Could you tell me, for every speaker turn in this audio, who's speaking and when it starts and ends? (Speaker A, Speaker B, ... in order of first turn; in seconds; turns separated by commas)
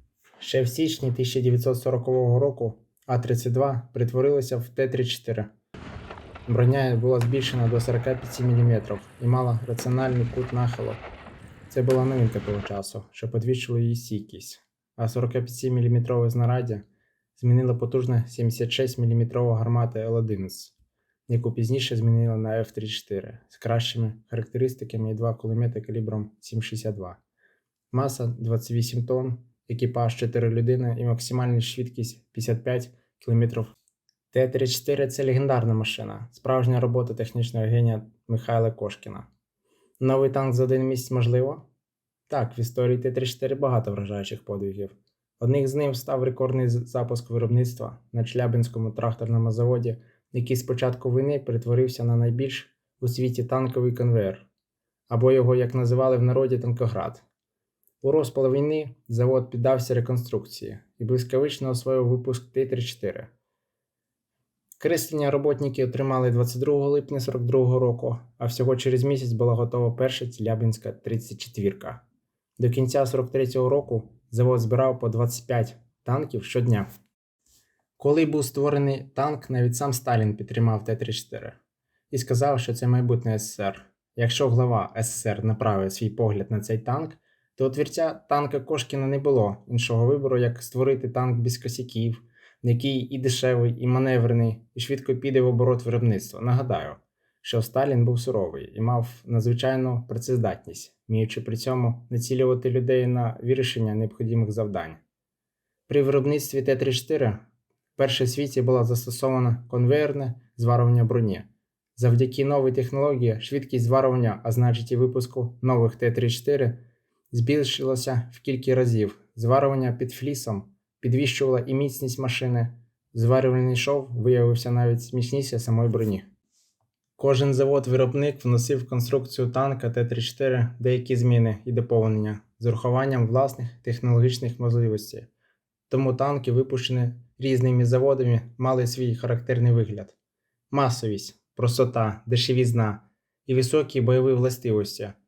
Speaker A: 0.4-5.5, Speaker A: 6.5-11.0, Speaker A: 11.7-16.8, Speaker A: 17.4-20.7, Speaker A: 21.3-27.2, Speaker A: 27.9-33.8, Speaker A: 34.3-39.3, Speaker A: 40.0-41.6, Speaker A: 42.3-54.5, Speaker A: 55.1-57.2, Speaker A: 58.0-63.3, Speaker A: 64.8-72.0, Speaker A: 72.6-76.9, Speaker A: 78.0-81.6, Speaker A: 82.1-105.0, Speaker A: 105.9-107.4, Speaker A: 108.0-116.8, Speaker A: 117.3-126.3, Speaker A: 127.2-135.3, Speaker A: 135.9-140.2, Speaker A: 140.7-145.2